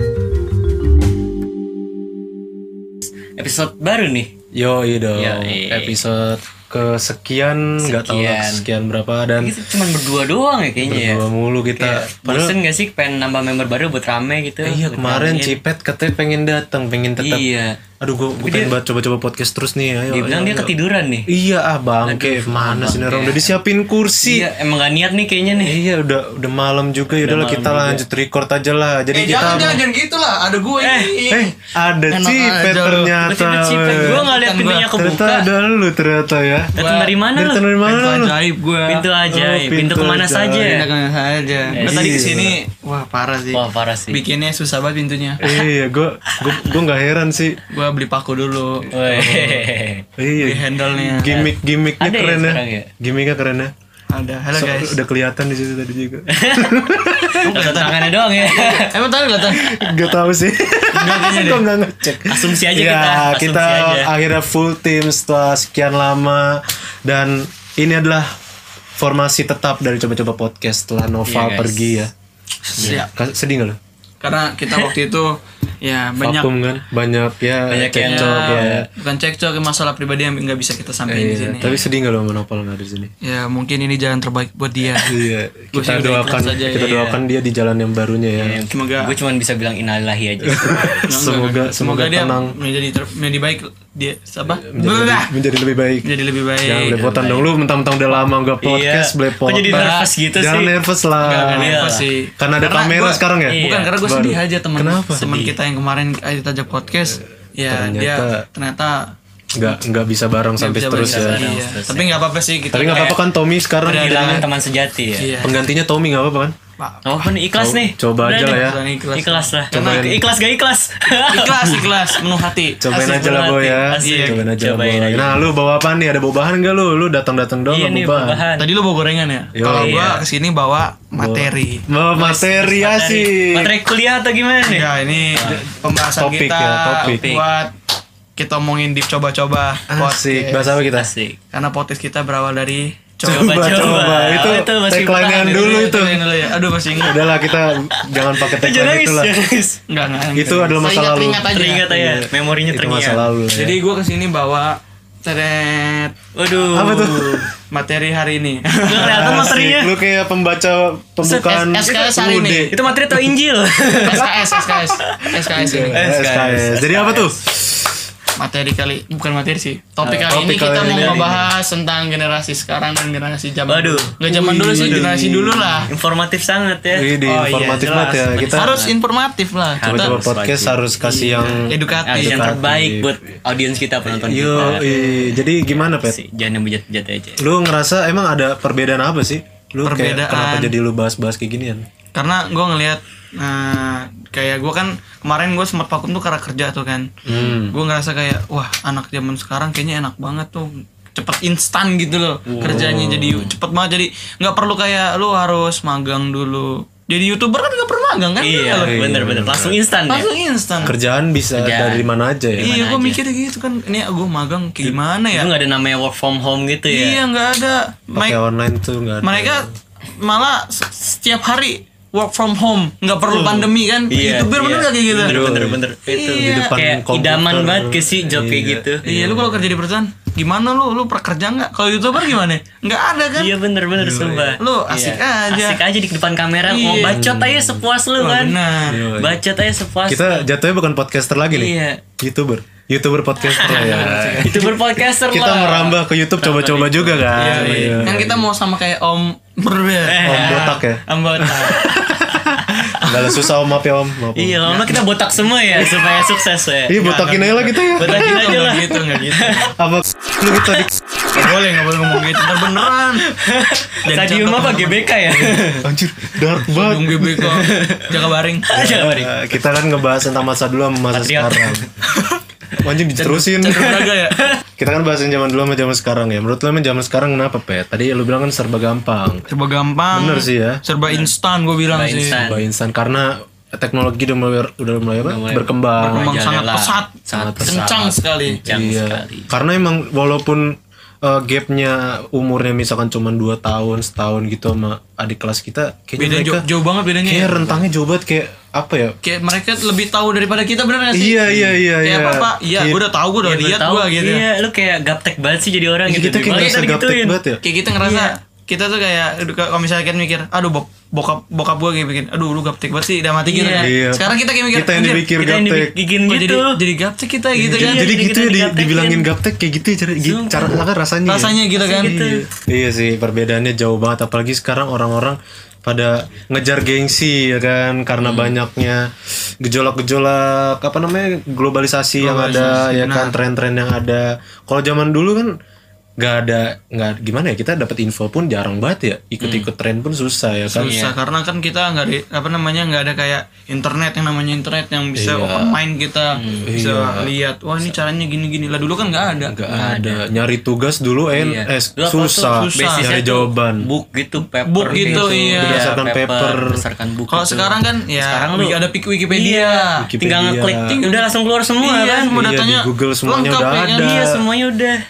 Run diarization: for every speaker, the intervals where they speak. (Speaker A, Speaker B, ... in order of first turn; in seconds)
Speaker A: 3.4-4.3, 5.2-6.0, 7.8-8.7, 9.4-11.2, 11.8-15.6, 17.2-17.8, 18.4-18.7, 20.1-21.3, 22.0-23.5, 24.2-25.8, 27.1-28.0, 29.4-29.7, 30.8-31.2, 33.2-35.5, 36.7-37.6, 38.9-40.9, 41.7-42.1, 43.5-44.2, 48.9-50.0, 51.3-52.9, 56.3-56.8, 57.5-58.9, 60.9-61.6, 62.3-64.1, 71.2-72.0, 77.7-78.8, 81.6-81.9, 86.8-87.2, 88.4-91.0, 97.1-97.5, 98.6-100.7, 101.5-102.1, 103.5-103.9, 111.0-112.2, 112.9-113.1, 113.9-115.4, 117.0-122.2, 122.9-125.4, 127.7-128.7, 129.6-130.2, 132.2-135.7, 137.0-137.4, 140.9-141.4, 143.3-145.8, 147.9-149.8, 151.4-153.2, 156.3-157.5, 158.8-159.9, 162.7-165.3, 165.9-167.3, 170.0-171.4, 173.7-174.2, 174.8-175.1, 175.9-177.1, 178.3-178.9, 179.8-184.9, 185.7-187.4, 202.6-203.6, 208.4-210.3, 211.5-212.0, 212.6-213.2, 214.8-217.2, 224.1-229.0, 233.3-238.6, 239.1-240.5, 241.5-242.0, 243.4-248.2, 250.0-250.7, 252.2-253.5, 254.3-257.0, 257.9-259.7, 263.3-265.8, 267.4-268.1, 268.7-269.4, 271.1-271.9, 273.7-274.6, 281.9-282.6, 285.2-289.5, 303.4-307.4, 308.0-308.3, 313.5-313.9, 315.3-316.7, 317.7-319.3, 320.2-320.8, 321.8-322.4, 328.2-328.6, 332.5-332.8, 339.4-339.7, 340.7-341.1, 346.4-346.7, 349.7-350.2, 351.3-358.8, 359.3-362.3, 364.0-365.0
Speaker B: 4.5-9.6, 10.8-12.6, 14.6-17.4, 18.0-20.7, 21.3-24.5, 25.6-29.8, 31.3-34.3, 34.9-36.7, 37.3-38.4, 39.2-40.6, 41.8-42.6, 45.4-47.6, 49.0-49.6, 50.2-53.7, 54.5-57.5, 59.5-68.3, 69.0-72.1, 72.8-73.8, 76.2-78.9, 81.0-83.1, 85.0-88.6, 90.5-92.5, 94.6-96.0, 96.6-101.8, 102.4-105.5, 107.7-108.4, 109.5-111.4, 112.7-114.5, 115.4-116.5, 117.5-118.8, 119.7-120.2, 122.8-128.4, 129.5-130.1, 131.2-133.7, 135.4-137.2, 139.9-141.1, 143.2-146.2, 147.0-149.3, 150.3-153.8, 156.7-157.5, 159.0-162.8, 165.5-167.9, 170.3-171.4, 174.2-175.9, 176.9-178.8, 179.8-183.1, 184.1-186.2, 187.4-191.8, 197.2-197.8, 202.5-203.4, 208.7-209.8, 210.8-212.7, 218.1-219.7, 223.3-223.7, 225.1-225.8, 226.4-229.7, 233.9-234.6, 237.0-237.8, 238.9-239.4, 240.1-244.6, 245.3-248.4, 250.2-254.7, 255.7-256.3, 256.9-258.4, 259.6-260.9, 265.8-267.6, 268.7-271.8, 272.8-273.8, 274.8-279.4, 280.1-280.8, 282.3-286.3, 287.3-288.1, 288.6-290.7, 291.2-296.6, 297.2-299.1, 301.1-303.0, 306.1-307.6, 313.8-315.9, 317.6-329.1, 329.6-335.5, 336.2-340.9, 345.1-345.8, 346.6-347.3, 349.4-353.8, 354.9-356.8, 359.9-360.9, 362.3-364.4
Speaker C: 29.1-31.6, 32.1-33.2, 33.9-34.9, 36.8-37.2, 37.8-39.1, 40.6-45.4, 47.7-48.9, 50.4-51.5, 54.1-55.0, 57.4-59.7, 61.3-61.6, 72.7-73.1, 74.2-76.5, 77.9-81.7, 83.2-87.2, 88.7-89.1, 91.1-95.3, 96.0-97.2, 99.6-100.1, 101.2-109.0, 110.6-113.2, 113.8-114.5, 115.2-115.6, 116.8-117.2, 118.2-120.1, 121.2-123.2, 124.0-124.4, 128.6-132.7, 134.6-137.7, 138.4-140.8, 141.5-144.1, 145.3-147.3, 149.9-151.9, 153.5-156.1, 157.7-159.6, 161.2-162.8, 164.0-166.0, 168.4-175.9, 177.2-180.2, 181.0-182.5, 184.5-185.3, 189.8-190.7, 192.1-209.0, 210.1-210.9, 212.6-215.5, 216.9-218.4, 219.2-225.4, 226.1-226.7, 229.0-233.6, 234.6-235.8, 236.6-237.2, 238.2-239.0, 243.6-244.7, 247.3-251.8, 254.7-255.0, 256.9-259.7, 261.3-263.3, 264.0-265.6, 266.6-268.8, 272.1-272.4, 273.1-274.4, 279.5-282.4, 286.0-288.6, 296.2-297.8, 299.2-304.4, 306.5-306.8, 307.6-315.3, 316.3-318.1, 321.2-322.1, 332.2-333.4, 340.7-349.5, 352.5-353.1, 354.4-355.9, 357.3-360.1, 360.9-364.2